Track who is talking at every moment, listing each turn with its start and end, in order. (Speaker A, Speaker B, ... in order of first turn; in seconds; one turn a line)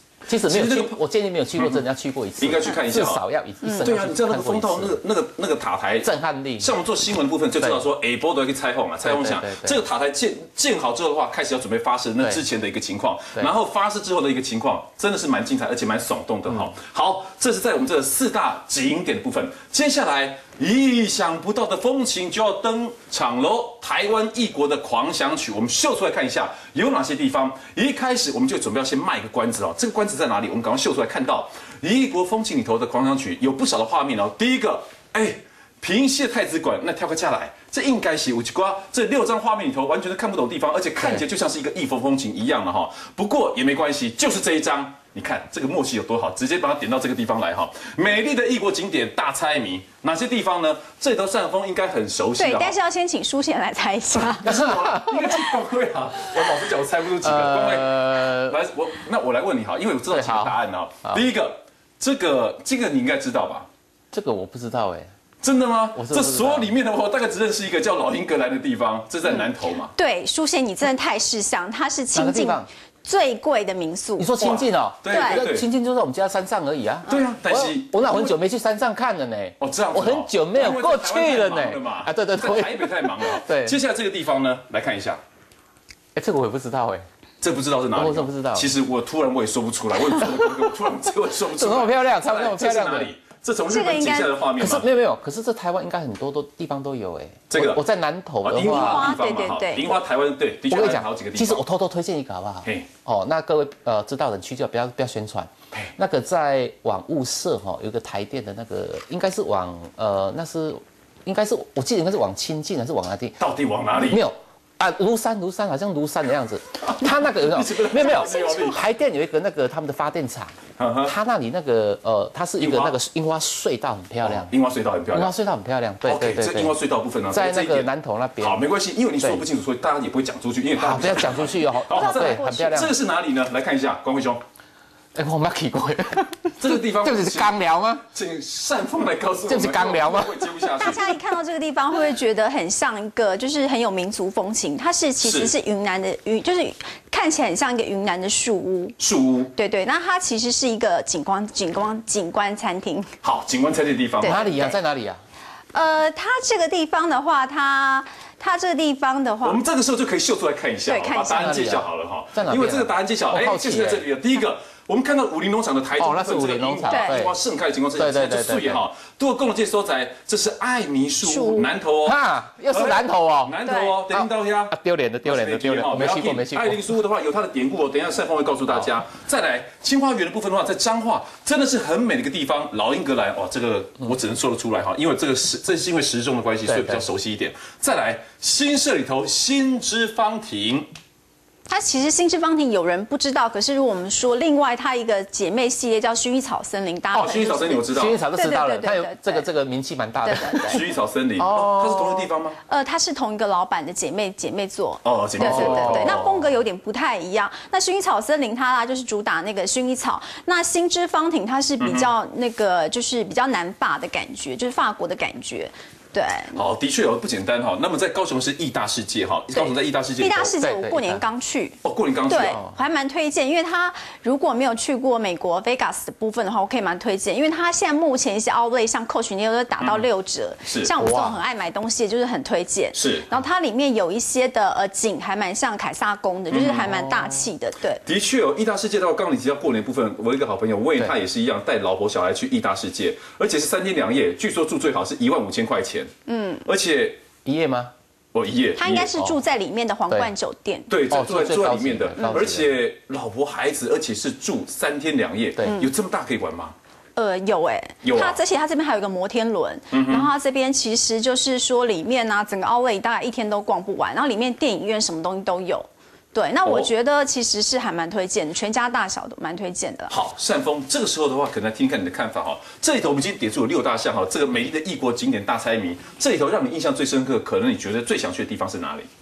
Speaker A: 0.2-5.0
Speaker B: 0.4-1.0
Speaker B: 1.6-1.8
Speaker B: 2.4-3.2
Speaker B: 3.8-52.7
Speaker A: 6.0-6.7
Speaker A: 9.0-9.8
Speaker A: 41.0-41.2
Speaker C: 52.4-54.5
Speaker B: 54.4-63.7
Speaker A: 54.5-55.2
Speaker A: 57.2-58.5
Speaker A: 60.1-60.5
Speaker A: 64.1-65.1
Speaker B: 65.4-69.9
Speaker A: 65.9-66.8
Speaker C: 69.3-74.3
Speaker A: 72.1-72.7
Speaker A: 74.2-83.8
Speaker B: 74.4-75.7
Speaker C: 75.1-75.4
Speaker B: 77.1-78.4
Speaker B: 79.6-85.2
Speaker A: 86.1-87.0
Speaker B: 87.4-94.9
Speaker A: 87.9-88.7
Speaker A: 90.2-90.7
Speaker A: 91.5-93.1
Speaker C: 93.7-94.3
Speaker A: 94.6-99.1
Speaker B: 97.5-97.8
Speaker B: 98.4-101.6
Speaker C: 98.6-100.0
Speaker A: 100.7-113.4
Speaker B: 113.4-114.2
Speaker A: 114.0-120.5
Speaker B: 116.8-118.8
Speaker B: 120.8-121.1
Speaker A: 121.0-124.5
Speaker B: 122.6-123.0
Speaker B: 124.2-125.3
Speaker A: 125.1-126.8
Speaker B: 126.0-134.4
Speaker A: 127.3-128.6
Speaker A: 130.7-132.9
Speaker C: 131.9-132.8
Speaker A: 135.1-138.0
Speaker B: 136.6-137.6
Speaker B: 138.1-141.1
Speaker A: 139.5-140.7
Speaker C: 140.8-148.9
Speaker B: 145.2-145.5
Speaker B: 149.0-149.5
Speaker C: 149.5-153.1
Speaker B: 153.2-154.6
Speaker C: 154.2-154.8
Speaker A: 154.2-155.2
Speaker C: 155.7-159.6
Speaker B: 159.4-172.2
Speaker C: 160.9-161.6
Speaker A: 161.3-164.0
Speaker A: 166.0-167.3
Speaker C: 166.9-167.2
Speaker A: 168.0-168.8
Speaker C: 171.2-171.7
Speaker A: 172.0-177.0
Speaker B: 172.7-190.9
Speaker C: 173.7-173.9
Speaker A: 186.6-187.0
Speaker C: 191.7-199.4
Speaker B: 197.1-198.2
Speaker A: 197.9-200.8
Speaker C: 200.2-200.8
Speaker B: 200.7-202.6
Speaker A: 201.4-202.3
Speaker C: 202.7-216.6
Speaker B: 205.0-206.5
Speaker A: 205.4-206.2
Speaker B: 211.8-212.1
Speaker B: 216.5-220.5
Speaker C: 219.5-238.0
Speaker A: 220.6-221.2
Speaker B: 221.8-222.6
Speaker A: 222.4-222.8
Speaker B: 229.8-230.1
Speaker B: 230.6-230.9
Speaker A: 231.0-231.4
Speaker B: 232.9-233.3
Speaker B: 236.5-236.9
Speaker A: 236.8-237.4
Speaker B: 238.0-246.1
Speaker C: 246.3-246.6
Speaker B: 246.6-247.2
Speaker A: 247.4-247.9
Speaker B: 248.3-249.1
Speaker C: 248.8-250.9
Speaker B: 250.9-256.7
Speaker A: 251.1-252.8
Speaker C: 252.2-252.4
Speaker C: 255.6-255.9
Speaker C: 257.1-270.1
Speaker B: 258.0-258.4
Speaker B: 259.9-260.3
Speaker B: 270.1-279.1